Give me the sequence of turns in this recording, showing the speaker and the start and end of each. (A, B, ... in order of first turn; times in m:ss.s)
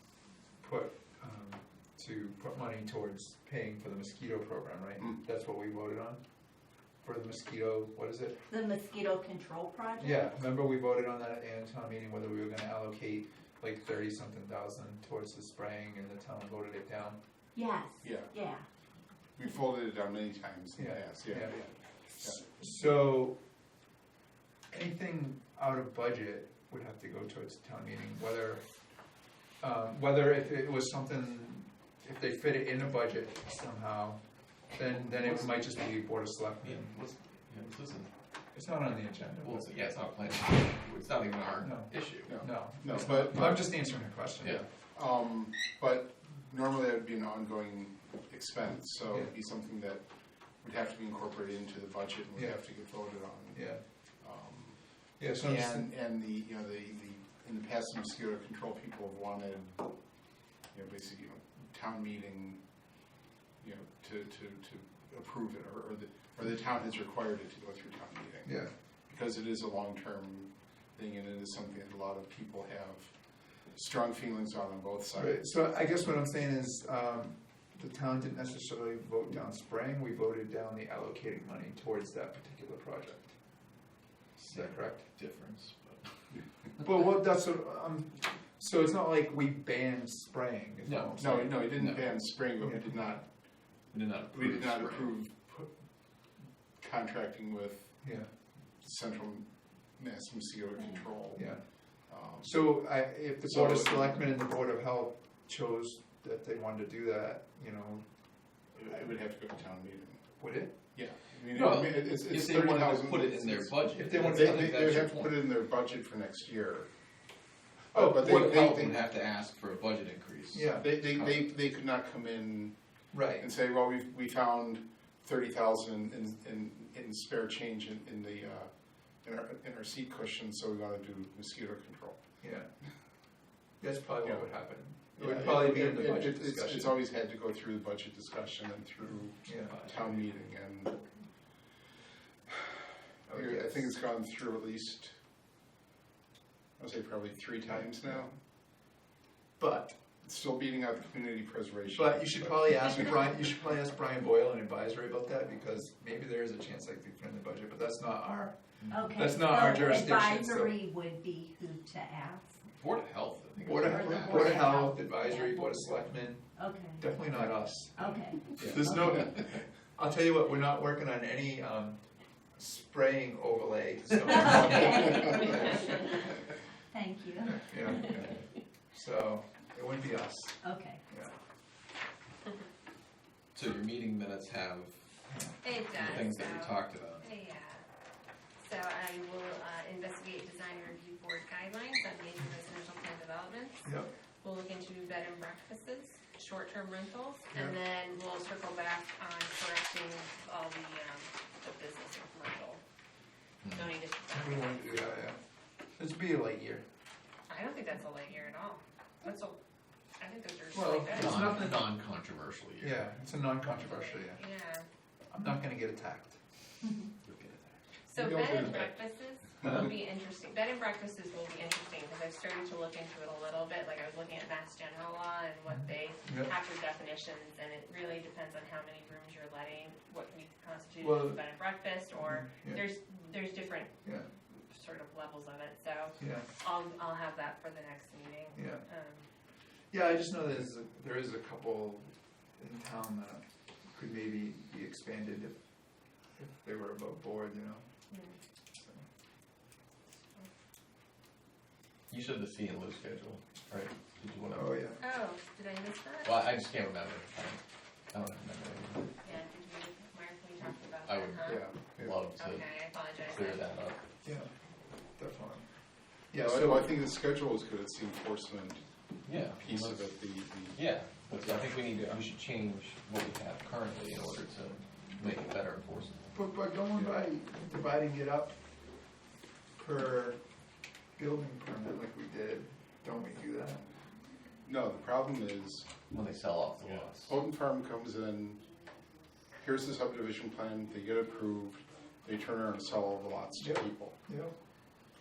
0:00.6-0:06.2 A
0:07.0-0:08.4 A
0:08.5-0:10.4 B
0:10.0-0:17.2 A
0:17.5-0:18.6 B
0:18.0-0:18.3 C
0:19.4-0:22.4 C
0:20.8-0:21.6 A
0:22.2-0:23.4 A
0:24.7-0:28.6 A
0:29.6-0:37.0 A
0:36.6-0:38.1 D
0:38.5-0:39.7 A
0:39.4-0:42.4 D
0:41.6-0:44.6 A
0:42.2-0:50.1 C
0:50.6-0:53.6 C
0:53.5-0:53.8 A
0:54.2-0:54.8 C
0:55.2-0:55.9 A
0:55.4-0:59.9 C
1:00.7-1:02.6 C
1:03.6-1:08.5 C
1:08.4-1:08.7 A
1:09.1-1:13.1 C
1:13.7-1:15.5 C
1:15.1-1:23.4 A
1:24.4-1:25.1 A
1:24.4-1:26.1 D
1:26.8-1:31.7 A
1:30.8-1:32.0 D
1:31.2-1:33.2 C
1:32.6-1:33.2 A
1:33.9-1:35.1 D
1:34.3-1:35.7 C
1:36.8-1:38.0 C
1:38.0-1:38.3 A
1:38.8-1:41.5 C
1:41.3-1:41.6 A
1:42.1-1:42.7 C
1:42.4-1:48.0 A
1:43.4-1:44.3 C
1:48.7-1:50.3 C
1:50.4-1:50.7 A
1:50.9-1:56.9 C
1:51.5-1:55.4 D
1:53.9-1:54.7 A
1:57.9-1:59.0 C
1:58.0-2:01.4 D
2:00.5-2:00.9 A
2:00.8-2:02.7 C
2:03.1-2:03.4 A
2:03.4-2:08.7 C
2:09.2-2:12.2 C
2:12.4-2:12.7 A
2:13.8-2:17.0 A
2:14.2-2:20.9 C
2:19.4-2:19.8 A
2:23.3-2:23.8 A
2:23.3-2:25.1 C
2:26.8-2:28.3 C
2:29.6-2:30.0 A
2:30.2-2:33.2 C
2:31.9-2:38.6 A
2:38.8-2:39.1 D
2:38.9-2:42.6 B
2:39.2-2:40.8 A
2:42.7-2:44.7 D
2:43.6-2:52.0 A
2:44.2-2:45.8 B
2:46.5-2:47.1 B
2:47.9-2:49.1 B
2:52.6-2:56.0 A
2:54.6-2:55.5 B
2:56.9-2:57.7 B
2:57.4-3:01.3 A
3:00.6-3:01.0 B
3:03.5-3:05.0 D
3:05.3-3:05.6 A
3:05.6-3:07.8 E
3:05.9-3:07.3 D
3:08.6-3:22.8 E
3:13.8-3:14.1 A
3:23.6-3:23.9 D
3:23.7-3:25.0 E
3:24.3-3:25.4 A
3:26.0-3:26.8 A
3:27.5-3:29.6 E
3:30.2-3:31.8 E
3:30.7-3:31.8 A
3:31.1-3:33.0 D
3:32.8-3:34.4 A
3:33.7-3:34.8 E
3:35.3-3:36.4 A
3:37.3-3:37.6 D
3:38.1-3:59.2 E
3:38.2-3:38.9 C
3:45.7-3:46.5 A
3:51.0-3:51.4 A
3:52.1-3:52.8 A
3:54.0-3:54.3 A
3:56.2-3:56.5 A
3:58.5-3:58.8 A
3:59.9-4:05.6 A
4:06.4-4:07.8 A
4:08.1-4:08.4 E
4:12.1-4:14.7 D
4:14.5-4:15.0 A
4:15.0-4:16.4 E
4:16.2-4:17.6 D
4:18.1-4:19.1 D
4:19.2-4:21.8 E
4:21.0-4:24.0 D
4:21.5-4:21.7 C
4:22.3-4:23.7 E
4:24.2-4:24.5 A
4:25.2-4:25.6 A
4:26.3-4:26.9 A
4:26.4-4:28.8 C
4:29.2-4:30.2 D
4:29.5-4:30.8 C
4:30.7-4:36.2 D
4:31.5-4:32.1 C
4:36.3-4:38.6 A
4:39.8-4:40.4 A
4:41.2-4:43.8 A
4:44.6-4:45.9 C
4:46.1-4:47.3 D
4:47.1-4:48.6 C
4:49.6-4:54.2 C
4:53.6-4:54.5 A